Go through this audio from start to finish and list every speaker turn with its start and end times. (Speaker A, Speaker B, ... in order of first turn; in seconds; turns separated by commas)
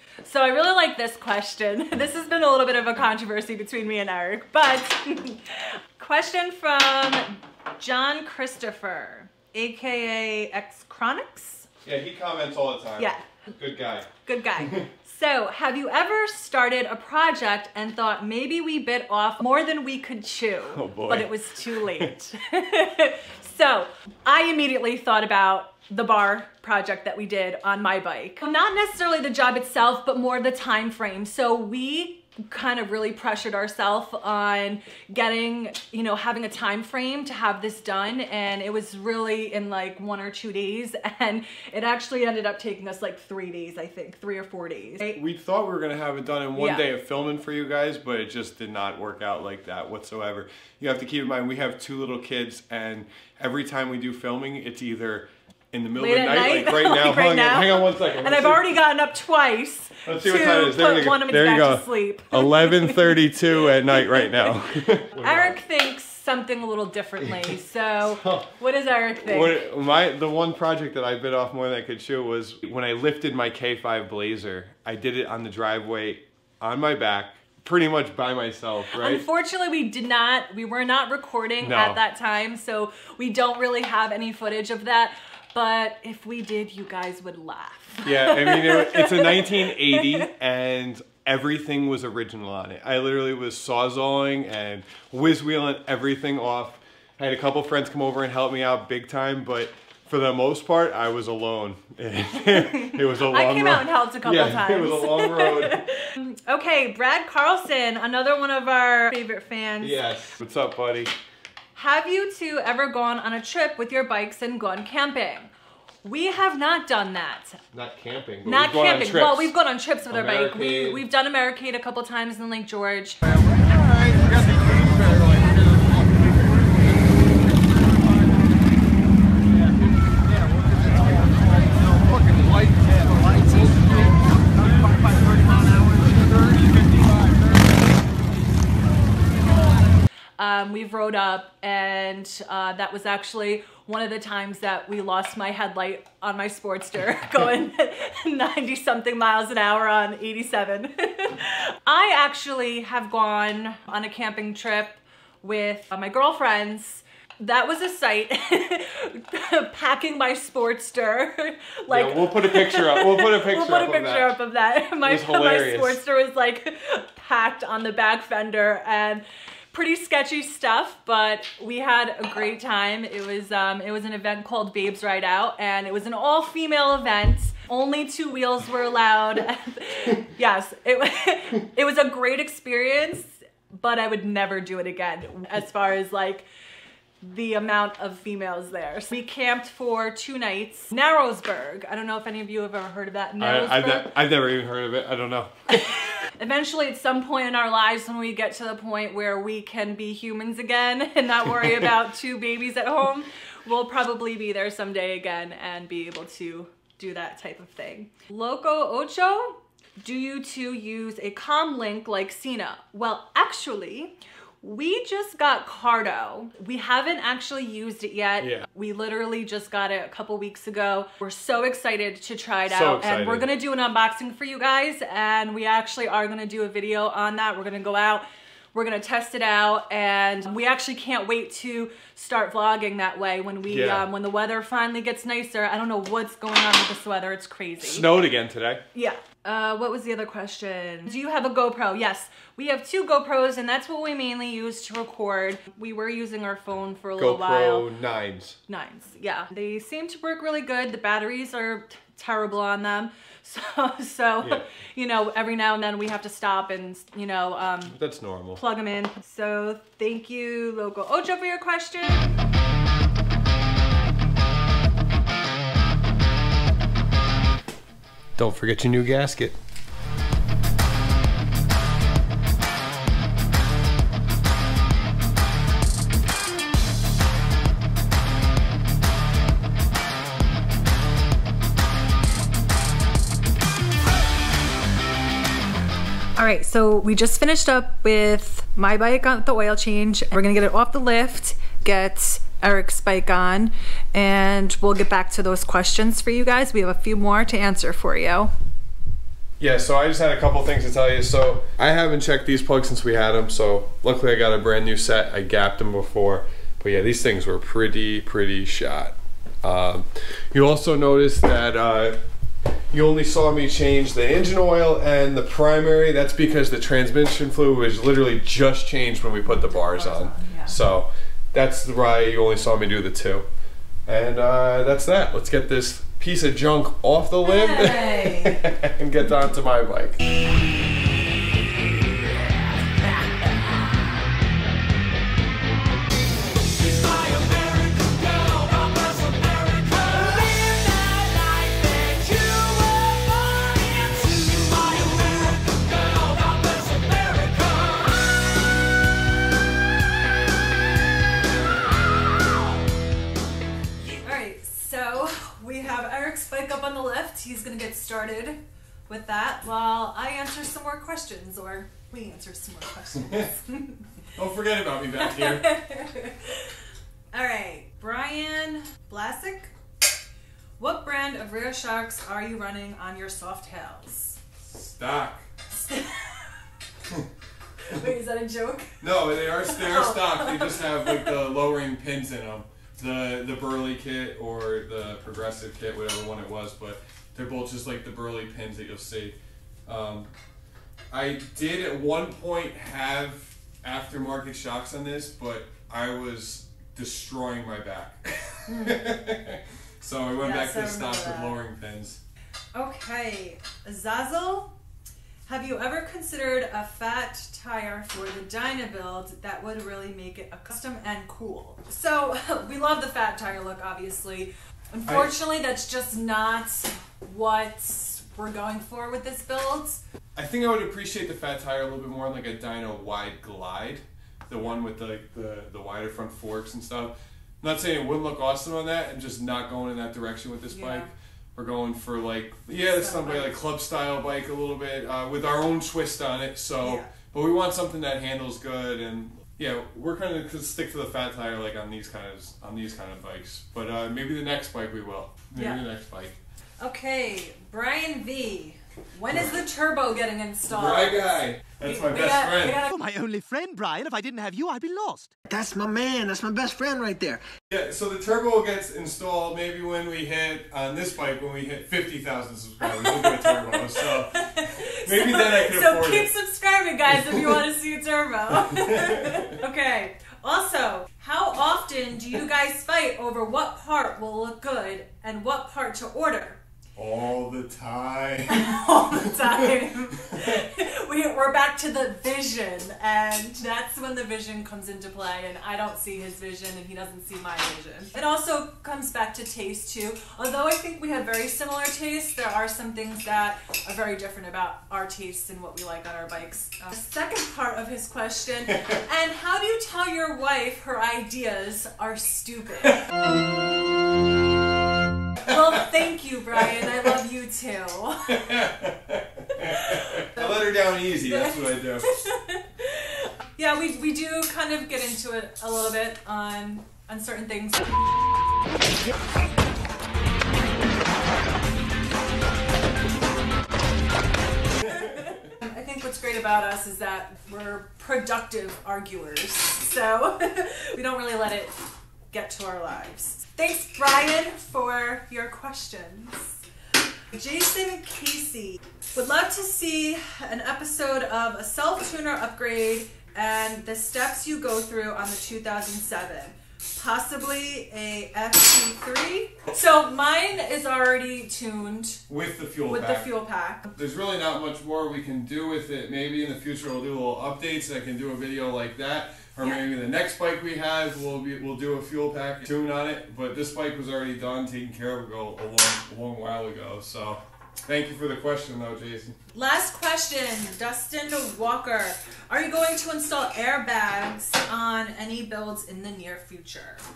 Speaker A: 0.2-11.7, Speaker B: 11.8-14.9, Speaker A: 13.0-13.2, Speaker A: 14.2-45.2, Speaker B: 20.7-22.1, Speaker B: 45.1-58.7, Speaker A: 46.5-46.9, Speaker A: 56.0-63.3, Speaker B: 60.0-65.6, Speaker A: 63.9-64.5, Speaker A: 65.1-69.6, Speaker B: 67.2-67.5, Speaker B: 68.0-68.5, Speaker B: 69.2-79.2, Speaker A: 78.9-90.3, Speaker B: 81.6-82.0, Speaker B: 88.0-105.8, Speaker A: 102.5-110.0, Speaker B: 109.8-111.1, Speaker A: 111.8-115.5, Speaker A: 116.0-117.6, Speaker B: 117.7-119.5, Speaker A: 118.5-123.2, Speaker B: 120.1-121.0, Speaker A: 140.4-186.5, Speaker B: 161.9-164.3, Speaker B: 165.0-166.0, Speaker A: 187.2-194.2, Speaker B: 193.4-195.9, Speaker A: 195.7-238.1, Speaker B: 218.4-218.7, Speaker B: 222.7-223.5, Speaker B: 233.7-234.1, Speaker B: 237.8-238.8, Speaker A: 238.9-247.9, Speaker B: 247.2-248.6, Speaker A: 248.7-258.0, Speaker B: 257.9-258.6, Speaker A: 258.6-262.4, Speaker B: 268.4-269.6, Speaker A: 286.4-298.5, Speaker B: 299.6-312.2, Speaker B: 312.9-323.4, Speaker A: 319.5-320.8, Speaker B: 324.1-330.2, Speaker A: 327.4-328.6, Speaker A: 332.9-333.5, Speaker C: 337.1-339.7, Speaker A: 340.2-342.9, Speaker C: 344.3-347.7, Speaker A: 354.0-364.0, Speaker B: 364.4-365.6, Speaker A: 365.2-366.7, Speaker A: 367.3-369.7, Speaker A: 370.8-374.4, Speaker B: 374.6-375.5, Speaker A: 375.7-376.6, Speaker A: 377.9-381.4, Speaker B: 379.0-390.3, Speaker B: 391.1-402.2, Speaker A: 398.7-399.0, Speaker A: 400.4-401.6, Speaker A: 402.7-404.7, Speaker A: 405.5-420.0, Speaker B: 415.1-415.3, Speaker B: 420.4-446.4, Speaker A: 430.7-431.1, Speaker A: 432.8-433.5, Speaker A: 436.8-437.1, Speaker A: 445.5-445.8, Speaker A: 446.8-452.9, Speaker B: 450.7-452.8, Speaker C: 452.8-455.3, Speaker D: 455.5-457.4, Speaker B: 457.7-466.3, Speaker A: 462.8-476.6, Speaker B: 467.1-467.5, Speaker B: 468.6-469.6, Speaker B: 477.0-479.8, Speaker A: 478.5-503.0, Speaker A: 505.4-508.7, Speaker B: 508.3-512.1, Speaker A: 509.6-510.5, Speaker A: 511.3-518.0, Speaker A: 524.8-536.6, Speaker A: 537.3-552.2, Speaker B: 552.3-553.3, Speaker A: 552.9-553.9, Speaker B: 554.0-569.4, Speaker A: 569.5-577.0